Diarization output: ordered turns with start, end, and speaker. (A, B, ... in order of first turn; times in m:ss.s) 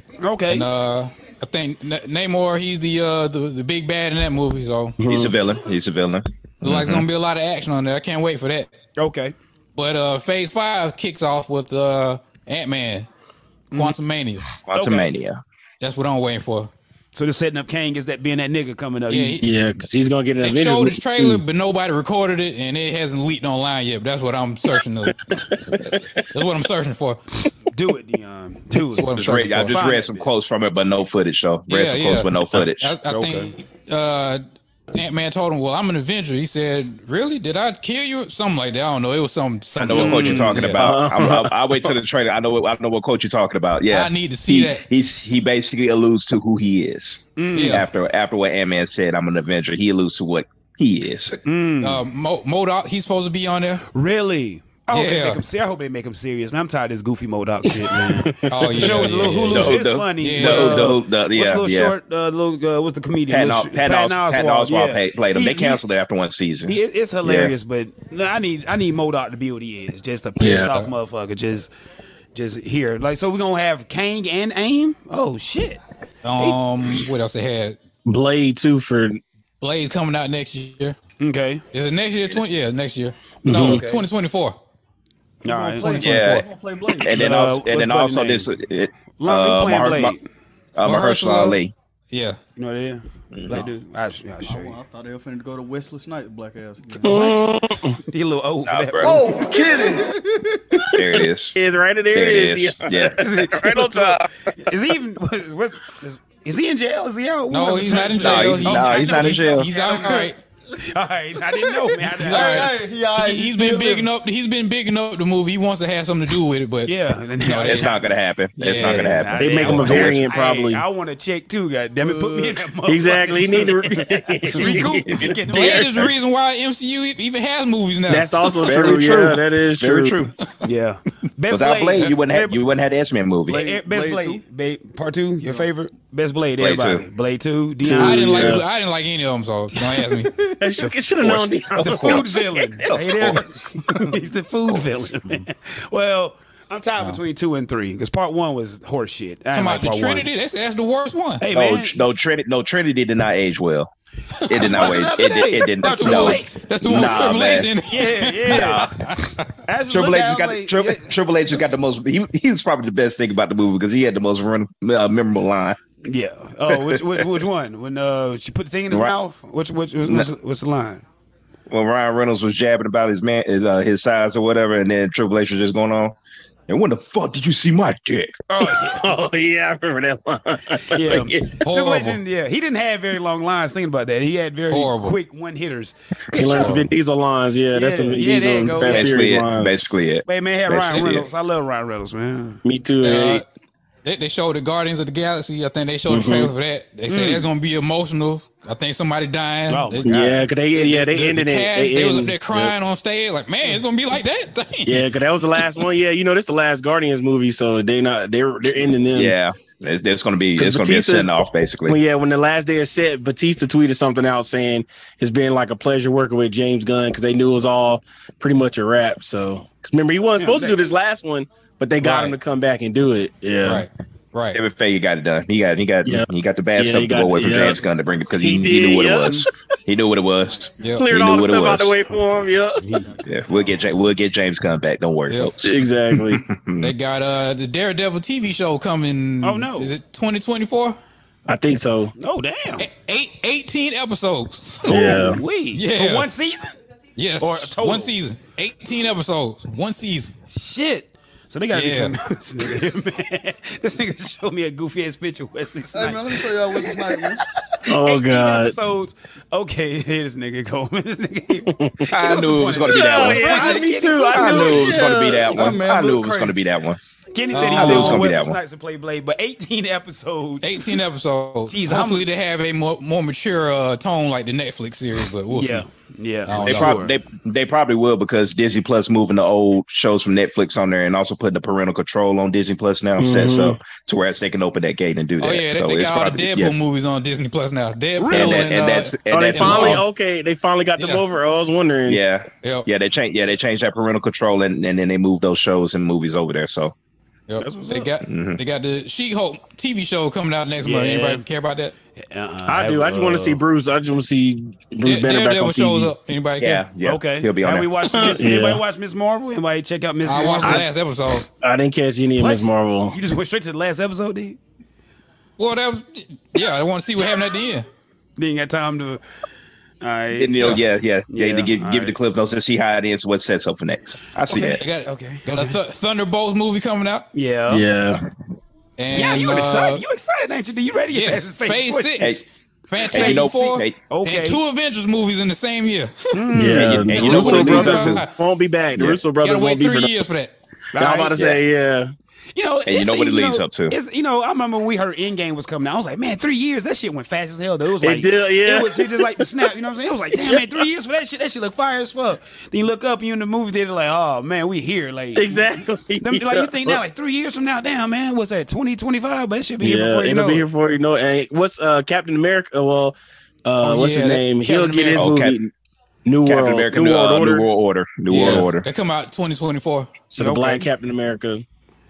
0:00.2-0:00.7 A
0:00.5-0:05.0 B
0:05.0-0:05.3 C
0:05.1-0:07.0 D
0:06.6-0:08.7 B
0:09.0-0:09.3 A
0:09.8-0:13.1 B
0:13.7-0:14.4 B
0:14.6-0:15.4 D
0:14.7-0:15.1 A
0:15.8-0:16.7 B
0:17.1-0:19.4 A
0:19.1-0:19.4 B
0:19.4-0:21.4 C
0:20.4-0:27.2 B
0:25.7-0:26.0 C
0:27.7-0:30.3 A
0:28.9-0:29.8 B
0:29.1-0:33.0 D
0:31.7-0:40.8 B
0:33.1-0:33.5 A
0:39.8-0:51.4 D
0:39.9-0:40.7 A
0:40.8-0:41.9 C
0:43.9-0:44.8 B
0:47.4-0:47.8 A
0:47.5-0:47.8 B
0:51.4-0:52.0 A
0:51.8-0:53.8 B
0:53.9-1:05.8 A
0:54.9-0:55.4 B
0:57.6-0:59.1 C
0:58.5-1:01.0 B
0:59.5-1:01.9 D
1:03.3-1:07.5 D
1:06.7-1:11.7 A
1:10.4-1:10.7 C
1:12.3-1:15.8 A
1:16.2-1:17.8 B
1:18.0-1:19.2 C
1:19.6-1:21.0 B
1:21.2-1:21.6 A
1:21.7-1:24.6 B
1:23.4-1:23.8 C
1:23.6-1:24.0 A
1:25.4-1:26.4 A
1:25.4-1:27.2 E
1:25.8-1:26.4 B
1:25.9-1:26.4 D
1:27.0-1:30.1 D
1:27.1-1:28.5 A
1:29.2-1:30.2 A
1:30.8-1:31.7 D
1:30.8-1:31.6 B
1:32.1-1:32.4 B
1:32.6-1:34.8 A
1:33.3-1:33.6 D
1:34.4-1:37.2 E
1:37.0-1:39.2 A
1:37.0-1:38.0 C
1:38.6-1:39.2 D
1:39.0-1:40.9 E
1:39.3-1:39.9 C
1:40.8-1:44.3 C
1:40.9-1:41.6 D
1:42.1-1:43.2 D
1:43.2-1:52.7 A
1:47.5-1:50.4 B
1:48.2-1:49.7 D
1:49.8-1:50.3 E
1:51.6-1:54.1 E
1:52.2-1:57.9 B
1:56.8-1:58.0 A
1:57.6-2:00.2 D
1:58.6-1:59.9 B
1:58.6-2:06.0 A
1:59.4-2:00.8 C
2:02.0-2:02.6 E
2:02.9-2:06.0 C
2:05.2-2:06.1 D
2:05.5-2:08.9 B
2:08.1-2:10.1 C
2:08.6-2:10.3 D
2:10.6-2:12.6 A
2:11.5-2:13.6 D
2:13.5-2:14.4 E
2:13.5-2:18.5 A
2:16.6-2:17.0 D
2:17.8-2:18.6 C
2:17.9-2:20.3 B
2:20.3-2:20.6 E
2:20.6-2:22.7 C
2:21.2-2:23.4 D
2:21.8-2:30.3 A
2:24.7-2:25.0 D
2:29.5-2:31.4 B
2:31.4-2:32.0 A
2:31.5-2:33.9 D
2:34.4-2:35.1 B
2:34.5-2:37.7 D
2:34.5-2:37.4 A
2:35.8-2:39.5 B
2:37.9-2:41.1 A
2:38.5-2:38.9 D
2:39.9-2:45.8 D
2:46.0-2:51.0 A
2:46.7-2:47.2 D
2:50.0-2:50.3 D
2:51.7-2:56.2 D
2:56.7-2:58.3 D
2:58.5-2:59.1 A
2:58.6-3:01.6 C
3:00.9-3:06.8 A
3:01.6-3:02.2 B
3:04.7-3:05.2 B
3:06.3-3:09.8 C
3:06.4-3:06.9 B
3:07.7-3:09.1 A
3:08.8-3:11.3 D
3:10.3-3:12.6 A
3:12.6-3:13.4 C
3:13.0-3:13.4 B
3:14.0-3:25.1 B
3:16.1-3:16.5 C
3:17.1-3:17.4 A
3:19.7-3:20.4 A
3:20.0-3:22.7 C
3:24.8-3:29.3 C
3:29.1-3:32.0 D
3:30.6-3:31.3 C
3:31.8-3:43.9 C
3:40.4-3:40.8 A
3:42.0-3:42.4 B
3:43.6-3:44.6 B
3:44.5-3:52.0 D
3:46.0-3:47.8 C
3:48.4-3:49.4 C
3:50.8-3:51.1 B
3:51.0-3:52.8 C
3:52.8-3:53.1 A
3:53.2-3:56.9 D
3:55.6-3:56.4 C
3:56.8-4:01.0 B
3:59.4-3:59.9 A
4:01.5-4:02.1 C
4:02.2-4:02.9 A
4:02.8-4:06.3 B
4:04.9-4:06.7 A
4:04.9-4:05.4 C
4:07.2-4:10.3 B
4:07.4-4:08.1 A
4:10.5-4:25.0 A
4:11.7-4:12.2 B
4:15.9-4:17.4 E
4:17.9-4:18.8 C
4:21.7-4:22.0 C
4:22.1-4:27.0 D
4:22.9-4:25.6 C
4:25.5-4:26.6 E
4:27.3-4:30.9 A
4:27.5-4:28.3 B
4:27.6-4:28.6 D
4:30.6-4:35.9 B
4:31.7-4:32.3 A
4:35.5-4:37.1 A
4:36.4-4:37.0 B
4:36.6-4:46.7 D
4:43.2-4:43.8 C
4:45.4-4:50.0 B
4:48.2-4:48.6 A
4:48.3-4:50.0 D
4:49.3-4:52.2 C
4:51.0-4:51.2 B
4:52.0-4:56.9 D
4:57.5-5:01.9 B
4:57.6-4:58.0 A
4:57.6-4:58.0 C
4:58.2-4:58.6 D
5:00.8-5:01.4 A
5:02.3-5:03.6 A
5:02.7-5:06.1 C
5:05.0-5:06.8 B
5:06.6-5:07.9 D
5:07.0-5:10.9 A
5:08.1-5:08.8 C
5:10.2-5:11.5 B
5:10.6-5:10.9 C
5:11.6-5:13.2 C
5:12.4-5:14.6 A
5:15.6-5:17.9 B
5:18.4-5:19.2 A
5:20.0-5:22.1 A
5:20.3-5:24.8 D
5:24.4-5:25.8 A
5:24.7-5:27.2 B
5:27.3-5:27.8 A
5:27.7-5:28.2 C
5:29.0-5:30.0 B
5:29.1-5:32.3 A
5:31.1-5:38.3 B
5:33.0-5:34.6 A
5:33.1-5:34.0 D
5:36.3-5:38.0 A
5:36.5-5:40.2 C
5:36.7-5:38.2 D
5:39.3-5:40.5 B
5:40.9-5:41.4 A
5:41.0-5:42.1 C
5:41.4-5:41.6 D
5:42.5-6:00.6 A
5:42.8-5:44.0 D
5:48.0-5:49.4 C
5:55.4-5:57.0 C
5:59.8-6:05.7 C
6:03.8-6:05.3 B
6:05.1-6:05.6 D
6:06.2-6:07.7 C
6:06.4-6:08.8 D
6:08.3-6:10.2 B
6:10.3-6:11.6 C
6:10.4-6:10.9 A